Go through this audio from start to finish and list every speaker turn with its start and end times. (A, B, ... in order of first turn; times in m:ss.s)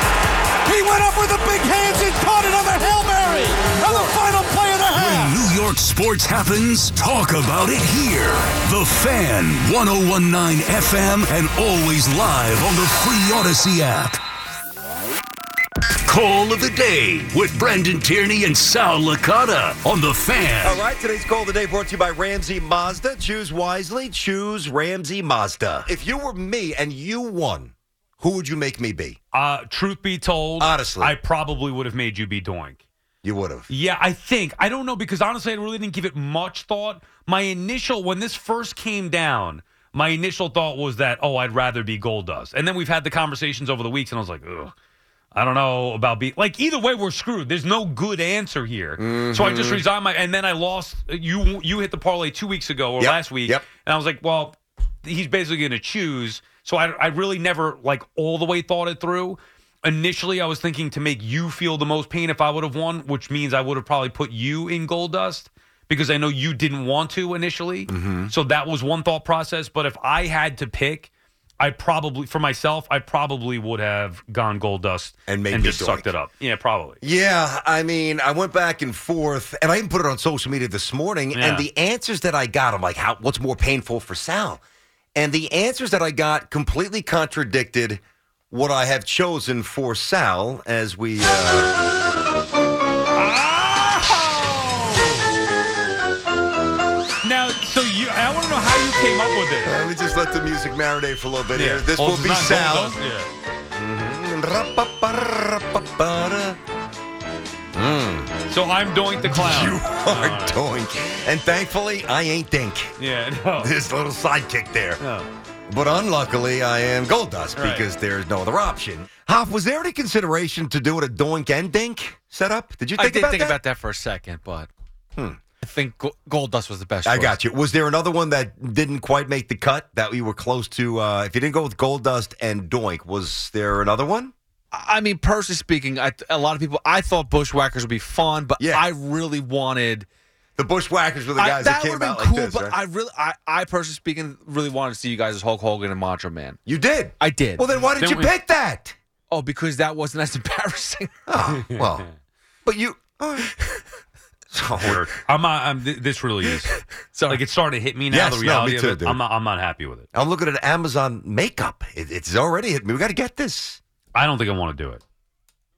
0:00.6-0:05.4 A
0:04.9-0:14.2 B
0:16.0-0:20.8 B
0:20.6-0:29.2 C
0:29.3-0:32.8 D
0:30.6-0:31.2 C
0:33.2-0:33.7 C
0:33.7-0:44.7 D
0:45.3-1:17.0 D
0:49.0-0:49.8 C
0:53.0-0:53.6 C
1:07.9-1:08.3 C
1:15.3-1:16.1 C
1:17.0-1:24.6 C
1:21.3-1:21.6 D
1:25.2-1:31.7 C
1:33.1-1:35.3 D
1:37.2-1:39.8 D
1:39.6-1:43.0 C
1:41.5-1:43.3 D
1:43.7-1:46.6 C
1:47.7-1:48.3 C
1:48.5-1:50.6 D
1:49.2-1:52.9 C
1:53.0-1:53.7 D
1:53.6-1:55.0 C
1:55.0-1:55.3 D
1:55.7-2:03.6 C
1:57.6-1:57.9 D
2:03.0-2:04.7 E
2:05.6-2:07.3 E
2:07.0-2:14.3 C
2:14.7-2:20.1 E
2:18.6-2:18.8 C
2:20.6-2:22.8 C
2:21.4-2:26.6 E
2:26.6-2:29.0 C
2:27.2-2:27.6 E
2:28.0-2:28.3 D
2:29.3-2:31.2 E
2:31.3-2:32.1 C
2:31.6-2:31.8 D
2:32.6-2:33.5 C
2:34.5-2:35.0 C
2:34.8-2:36.7 D
2:37.1-2:37.4 E
2:37.3-2:40.1 D
2:38.1-2:39.2 C
2:40.1-2:43.8 C
2:44.1-2:45.0 D